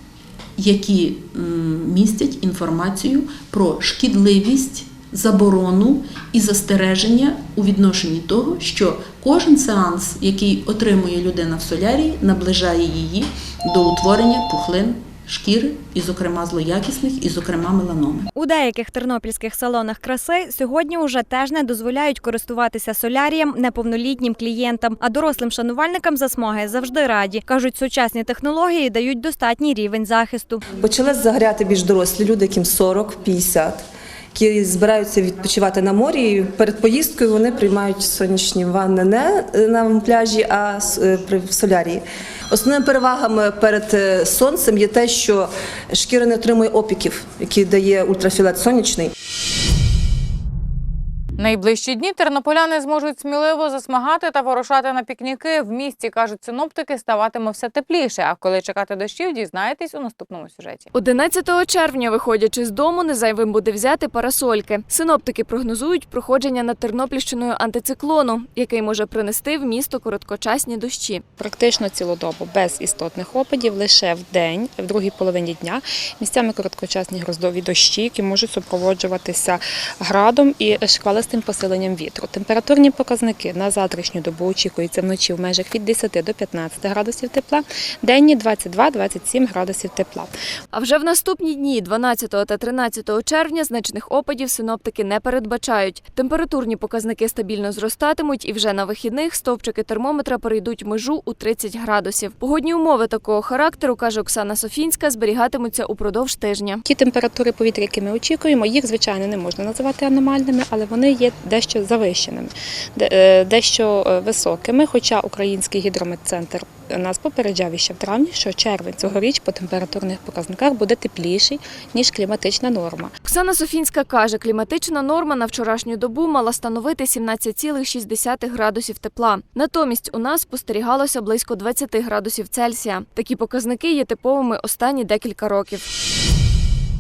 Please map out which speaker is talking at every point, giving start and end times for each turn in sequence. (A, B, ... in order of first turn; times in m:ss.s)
0:00.6-0:18.3 A
0:18.4-0:30.6 B
0:30.8-0:33.8 C
0:34.3-0:49.1 C
0:51.4-1:00.9 D
1:01.0-1:11.3 E
1:11.4-1:30.3 F
1:30.7-1:46.8 E
1:46.8-2:03.1 F
2:03.2-2:15.9 E